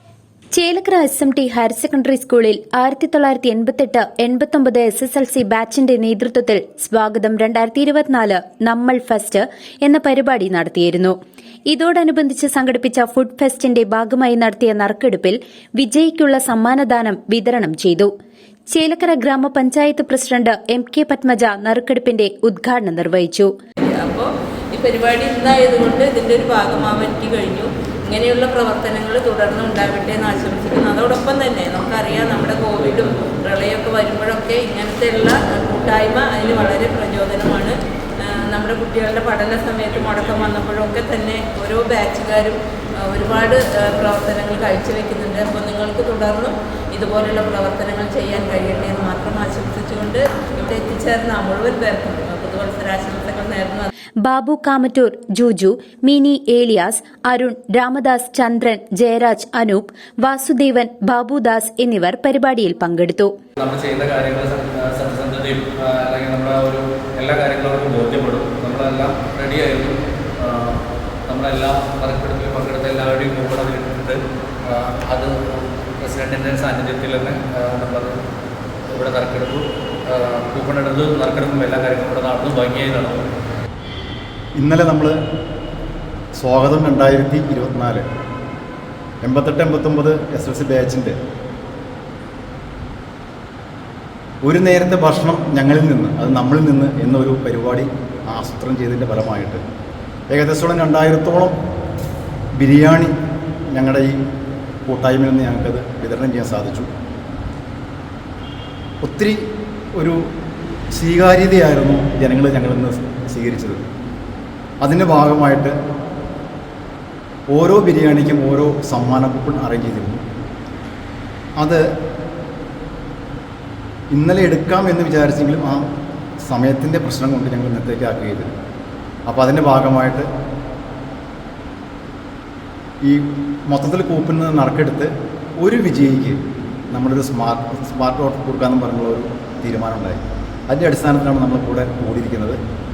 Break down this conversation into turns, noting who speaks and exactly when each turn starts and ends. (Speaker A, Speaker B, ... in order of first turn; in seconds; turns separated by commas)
Speaker A: 0.5-11.2, Speaker A: 11.7-18.1, Speaker A: 18.7-23.5, Speaker B: 23.8-53.9, Speaker C: 39.9-40.5, Speaker A: 54.2-63.3, Speaker C: 63.6-78.2, Speaker C: 78.9-83.2, Speaker D: 84.6-85.2, Speaker D: 86.4-88.0, Speaker D: 89.2-91.2, Speaker D: 94.4-99.6, Speaker D: 100.3-101.6, Speaker D: 102.6-103.1, Speaker D: 103.7-104.2, Speaker D: 104.9-106.9, Speaker D: 109.0-109.4, Speaker D: 110.0-110.3, Speaker D: 110.9-113.8, Speaker D: 114.8-115.8, Speaker D: 117.5-120.2, Speaker D: 124.1-125.9, Speaker D: 126.4-128.5, Speaker D: 129.3-130.3, Speaker D: 133.0-136.4, Speaker D: 136.9-142.6